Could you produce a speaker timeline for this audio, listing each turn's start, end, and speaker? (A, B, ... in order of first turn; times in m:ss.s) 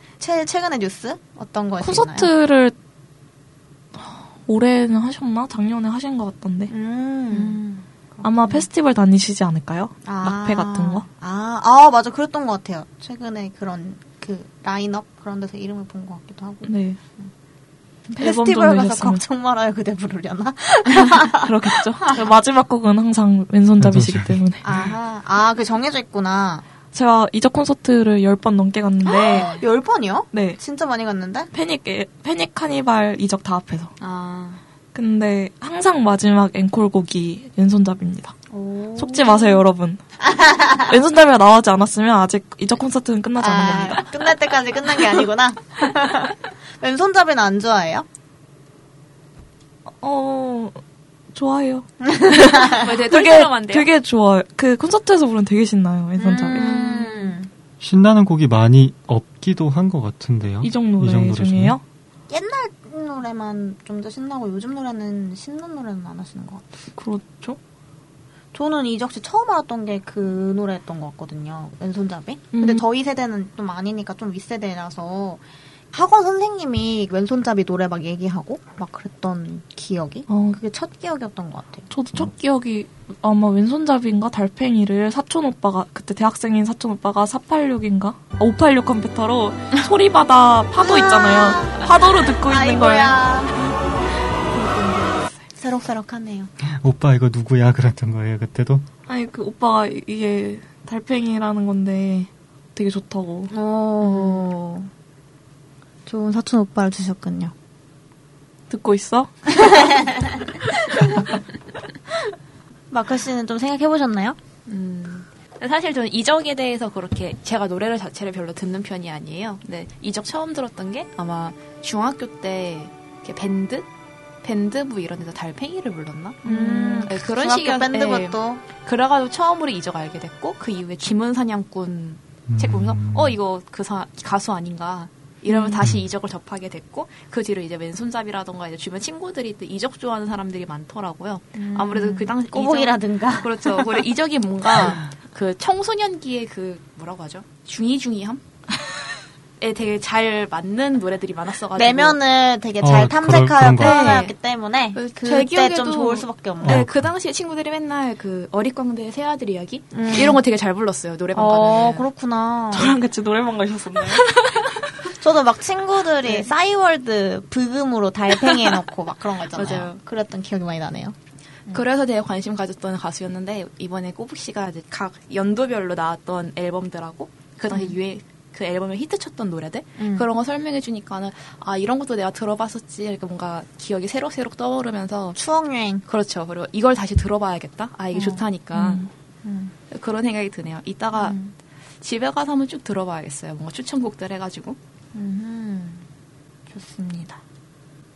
0:00.2-0:02.3 A
0:01.8-0:02.7 B
0:04.0-0:06.7 B
0:06.7-0:07.7 A
0:07.3-0:07.8 C
0:08.2-0:08.6 A
0:08.2-0:11.0 B
0:10.0-0:17.3 A
0:16.6-0:17.0 B
0:18.1-0:21.5 A
0:18.2-0:19.2 B
0:21.0-0:24.6 B
0:23.8-0:24.9 D
0:24.6-0:26.6 A
0:26.9-0:29.5 B
0:29.1-0:31.5 A
0:29.2-0:29.6 C
0:30.3-0:30.6 B
0:31.5-0:33.9 B
0:34.0-0:34.6 C
0:34.9-0:38.4 B
0:38.5-0:39.6 A
0:39.0-0:40.0 B
0:40.2-0:40.9 A
0:40.8-0:44.0 B
0:43.4-0:48.0 A
0:50.0-0:50.8 B
0:51.3-0:56.8 B
0:52.0-0:52.9 A
0:52.7-0:53.9 C
0:56.2-0:57.5 A
0:56.5-0:57.1 C
0:57.8-1:01.8 D
1:00.6-1:01.8 B
1:02.3-1:06.6 A
1:07.0-1:07.6 B
1:08.5-1:21.9 A
1:12.5-1:12.8 B
1:20.3-1:20.6 B
1:21.9-1:33.2 B
1:30.8-1:33.8 A
1:35.5-1:36.5 A
1:36.7-1:38.8 D
1:39.1-1:43.5 B
1:43.5-1:44.9 A
1:46.0-1:47.5 A
1:48.7-1:49.7 B
1:49.6-1:50.3 A
1:52.9-1:54.4 A
1:54.7-2:03.9 C
2:04.4-2:28.4 C
2:06.4-2:08.6 A
2:12.5-2:13.4 D
2:15.5-2:15.8 A
2:21.6-2:24.0 A
2:29.6-2:32.2 C
2:31.8-2:36.9 A
2:32.8-2:34.2 D
2:33.7-2:34.3 C
2:34.9-2:42.1 C
2:36.6-2:36.9 D
2:39.9-2:40.4 A
2:41.3-2:42.9 A
2:42.7-2:44.6 B
2:45.1-2:51.1 A
2:49.5-2:50.0 C
2:51.7-3:05.4 C
2:57.7-2:58.0 A
3:00.0-3:00.2 A
3:05.4-3:06.0 A
3:06.0-3:09.1 C
3:08.1-3:09.7 A
3:09.9-3:11.4 C
3:11.2-3:11.5 A
3:12.0-3:14.8 C
3:15.1-3:16.0 A
3:16.7-3:17.4 A